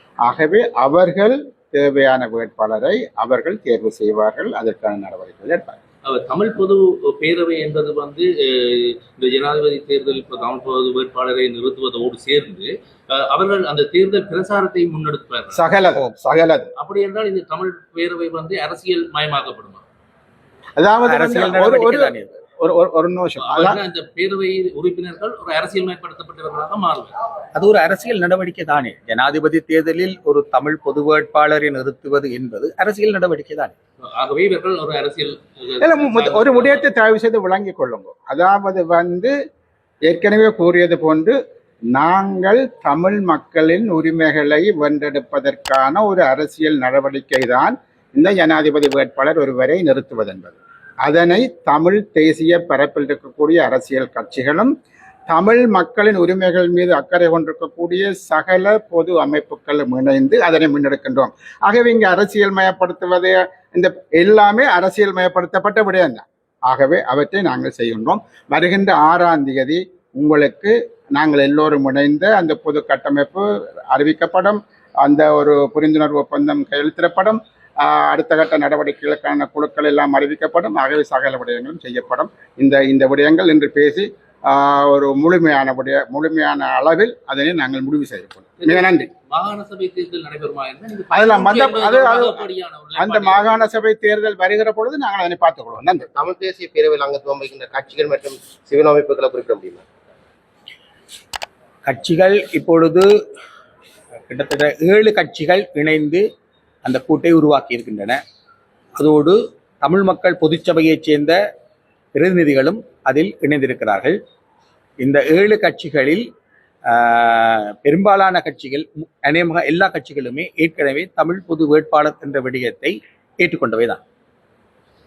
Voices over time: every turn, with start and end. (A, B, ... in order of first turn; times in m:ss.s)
0:00.2-0:05.8 A
0:06.1-0:15.6 B
0:15.5-0:16.7 A
0:15.8-0:16.2 C
0:16.8-0:19.8 B
0:20.8-0:23.8 A
0:21.1-0:22.4 C
0:23.4-0:27.1 B
0:27.5-0:33.7 C
0:34.0-0:36.9 B
0:35.8-0:39.3 A
0:40.1-0:41.4 A
0:41.9-0:54.7 A
0:55.3-1:29.1 A
1:28.6-1:33.6 B
1:31.1-1:36.1 A
1:36.1-1:39.8 D
1:41.9-1:43.1 C
1:44.3-1:46.2 C
1:46.8-1:48.2 C
1:49.0-1:51.4 C
1:52.2-1:54.2 C
1:55.0-1:56.2 C
1:56.9-2:04.0 C